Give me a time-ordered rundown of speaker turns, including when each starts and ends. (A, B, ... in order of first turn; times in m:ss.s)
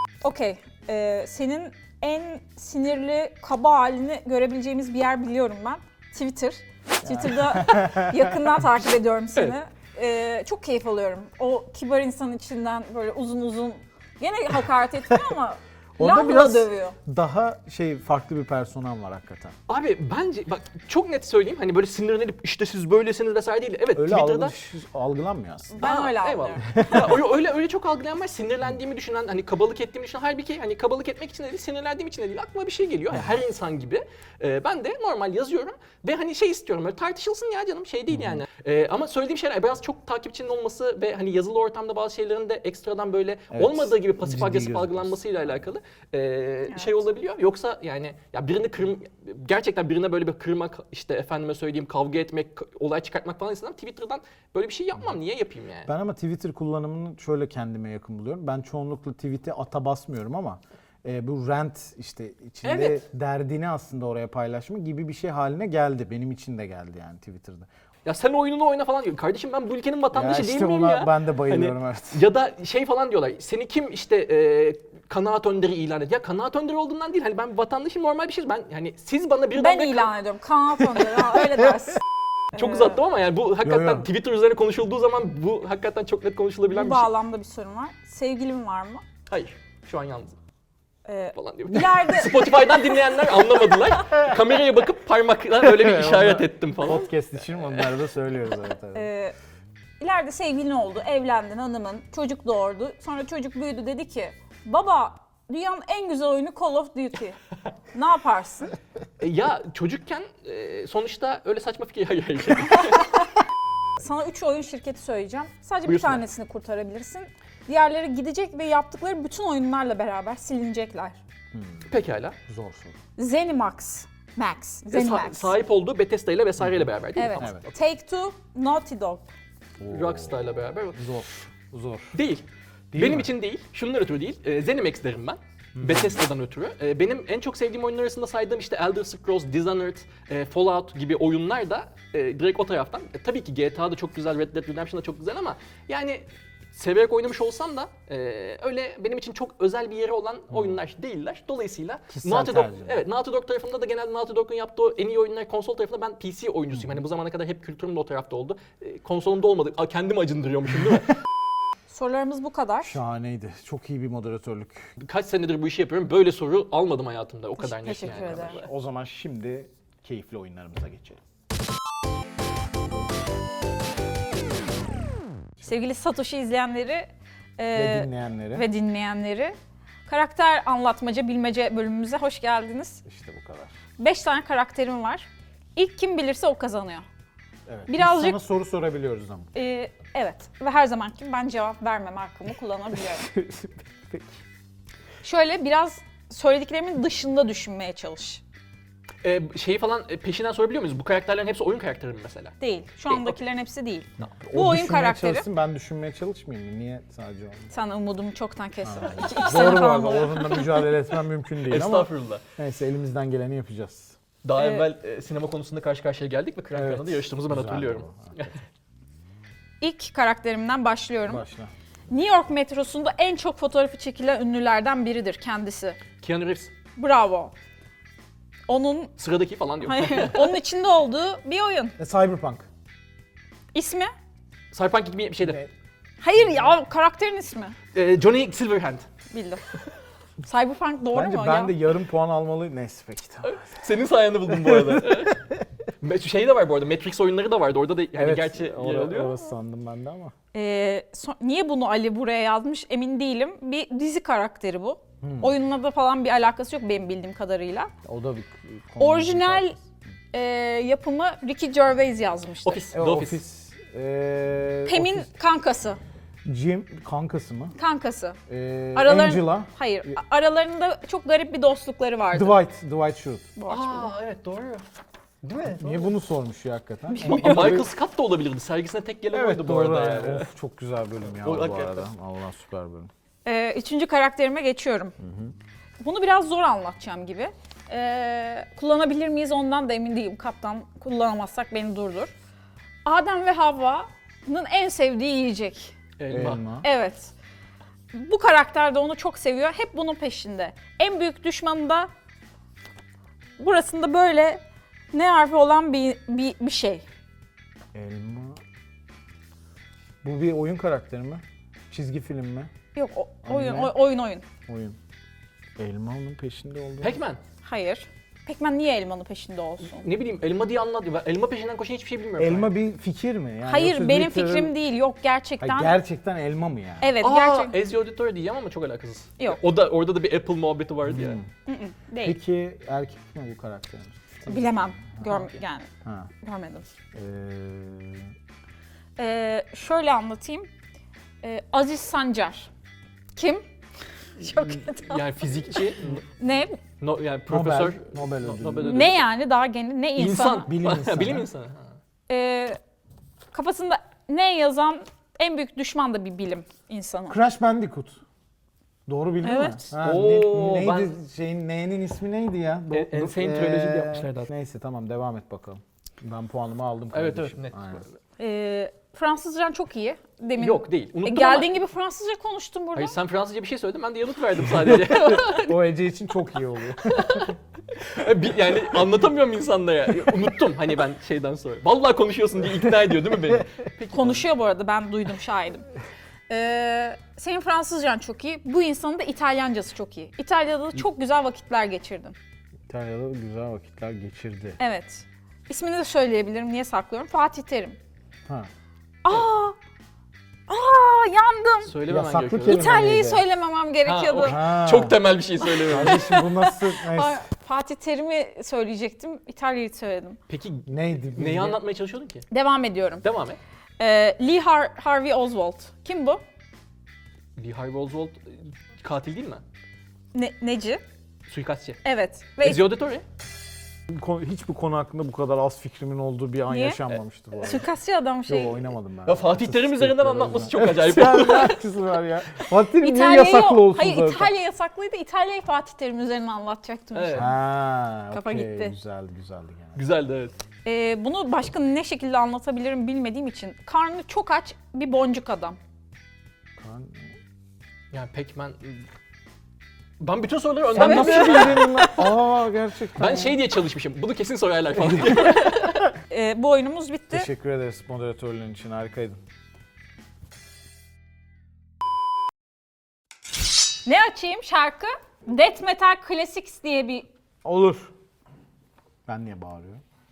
0:00.2-0:17.0 A
0:07.0-0:08.5 B
0:16.0-0:19.5 B
0:19.7-0:24.5 C
0:23.9-0:25.8 B
0:25.7-0:26.8 A
0:25.8-0:55.9 C
0:26.7-0:27.2 B
0:38.1-0:38.4 B
0:43.5-0:45.5 B
0:55.8-1:07.7 B
1:02.6-1:03.0 C
1:08.0-1:20.1 C
1:10.1-1:12.2 B
1:19.5-1:22.0 A
1:22.5-1:23.0 A
1:22.6-1:27.1 C
1:23.6-1:24.1 B
1:26.7-1:29.0 A
1:29.3-1:30.3 C
1:31.0-1:33.1 A
1:31.3-1:38.1 C
1:35.6-1:39.1 B
1:38.9-1:39.3 A
1:40.0-1:47.4 A
1:47.9-1:48.7 A
1:49.2-1:53.1 C
1:54.0-2:01.2 A
1:55.8-1:56.2 C
2:01.5-2:01.9 B
2:01.9-2:02.4 C
2:02.5-2:03.0 B
2:03.2-2:05.5 A
2:04.9-2:07.7 C
2:06.6-2:07.6 B
2:07.2-2:09.3 A
2:09.8-2:12.2 B
2:09.9-2:11.0 C
2:12.1-2:41.2 C
2:12.9-2:13.3 B
2:15.7-2:16.2 B
2:30.5-2:30.8 B
2:32.1-2:33.0 B
2:36.7-2:37.0 B
2:41.9-2:43.0 A
2:42.8-2:44.9 B
2:45.0-2:48.7 C
2:47.6-2:48.6 A
2:48.2-2:51.2 B
2:55.6-2:59.5 A
2:57.7-2:58.7 B
3:00.1-3:03.0 A
3:03.0-3:03.7 B
3:04.0-3:07.0 A
3:07.7-3:09.5 B
3:07.9-3:08.4 A
3:09.5-3:13.3 A
3:13.4-3:13.7 B
3:15.2-3:18.4 A
3:19.2-3:22.5 C
3:22.6-3:25.5 A
3:23.1-3:23.4 C
3:24.4-3:27.7 B
3:27.7-3:30.9 A
3:28.8-3:34.2 B
3:31.6-3:32.4 C
3:34.4-3:38.6 C
3:34.6-3:34.8 A
3:36.7-3:38.3 B
3:39.8-3:41.4 A
3:41.3-3:41.7 B
3:42.1-3:46.0 A
3:46.2-3:46.7 C
3:47.0-3:47.5 A
3:48.7-3:49.1 A
3:49.2-3:50.6 C
3:49.8-3:52.0 A
3:52.0-3:52.7 B
3:53.7-3:54.1 A
3:54.7-3:55.6 C
3:55.4-3:55.7 B
3:56.2-3:57.8 A
3:57.9-3:59.1 C
3:59.3-3:59.6 A
4:00.4-4:01.7 A
4:01.1-4:03.6 B
4:03.4-4:09.3 C
4:04.6-4:05.3 B
4:08.2-4:10.3 B
4:10.5-4:17.9 A
4:15.2-4:15.5 B
4:18.0-4:19.7 B
4:19.0-4:19.8 A
4:20.3-4:22.9 A
4:22.6-4:23.4 C
4:22.9-4:25.3 B
4:24.8-4:26.0 A
4:26.4-4:27.7 B
4:27.8-4:28.4 A
4:28.5-4:30.2 B
4:28.9-4:32.6 A
4:32.3-4:33.5 B
4:33.6-4:34.1 A
4:33.7-4:34.8 C
4:35.4-4:36.1 C
4:35.7-4:37.9 B
4:37.1-4:37.8 A
4:37.2-4:40.5 C
4:39.3-4:43.1 B
4:41.3-4:42.0 C
4:43.4-4:45.1 A
4:45.2-4:45.5 B
4:46.0-4:52.3 A
4:53.0-4:56.0 A
4:56.2-4:56.6 C
4:56.3-4:56.9 B
4:56.8-4:57.3 A
4:58.1-5:02.1 A
5:03.6-5:04.6 A
5:05.1-5:07.0 A
5:07.9-5:08.6 B
5:10.2-5:12.7 B
5:12.9-5:14.4 A
5:13.4-5:13.9 B
5:14.7-5:15.0 B
5:15.8-5:17.2 B
5:17.0-5:17.4 C
5:17.6-5:20.1 A
5:19.8-5:22.7 C
5:22.4-5:24.7 B
5:23.6-5:26.0 A
5:25.6-5:27.1 B
5:27.0-5:27.7 A
5:27.2-5:31.4 C
5:31.0-5:31.5 B
5:31.6-5:32.4 A
5:32.2-5:35.2 B
5:34.5-5:35.9 A
5:35.3-5:35.6 C
5:36.0-5:36.3 B
5:36.4-5:36.8 A
5:37.1-5:38.3 B
5:39.2-5:40.7 A
5:41.4-5:42.7 A
5:43.4-5:43.6 A
5:44.4-5:45.2 A
5:44.4-5:46.2 C
5:45.7-5:46.8 A
5:47.0-5:49.2 C
5:47.5-5:49.2 B
5:48.8-5:50.7 A
5:50.2-5:51.9 C
5:50.6-5:51.5 B
5:52.3-5:52.8 A
5:53.5-5:57.4 A
5:57.3-5:58.2 B
5:59.1-6:08.0 B
5:59.4-5:59.8 A
5:59.9-6:01.1 C
6:02.9-6:04.5 C
6:07.1-6:08.0 C
6:08.4-6:13.1 A
6:10.6-6:11.8 C
6:12.9-6:15.8 C
6:14.8-6:17.5 B
6:17.0-6:24.5 C
6:24.1-6:25.8 A
6:26.5-6:32.3 A
6:32.9-6:34.8 B
6:34.8-6:38.0 A
6:39.2-6:39.7 A
6:40.7-6:41.9 A
6:41.8-6:42.9 C
6:42.0-6:43.4 B
6:42.6-6:44.6 A
6:44.0-6:46.2 C
6:44.4-6:45.2 B
6:45.6-6:50.4 A
6:45.8-6:47.4 B
6:50.5-6:52.4 C
6:50.9-6:51.8 B
6:52.5-6:53.3 A
6:53.2-6:53.6 C
6:54.0-6:56.4 A
6:57.6-6:59.6 C
7:00.3-7:01.0 A
7:01.5-7:02.0 C
7:02.0-7:02.8 A
7:02.6-7:03.2 C
7:04.1-7:07.9 B
7:06.7-7:07.0 A
7:07.6-7:08.9 A
7:08.5-7:14.5 B
7:09.2-7:11.8 C
7:13.0-7:17.6 A
7:17.1-7:17.5 C
7:17.3-7:20.0 B
7:18.3-7:18.9 A
7:20.0-7:20.5 C
7:20.8-7:25.8 A
7:26.8-7:27.3 B
7:28.1-7:29.0 C
7:30.2-7:32.4 C
7:30.9-7:33.6 B
7:31.0-7:32.1 A
7:33.2-7:36.1 C
7:35.0-7:35.4 B
7:36.3-7:37.5 A
7:37.3-7:39.4 B
7:44.0-7:47.3 A
7:47.6-7:48.1 B
7:49.3-7:50.0 B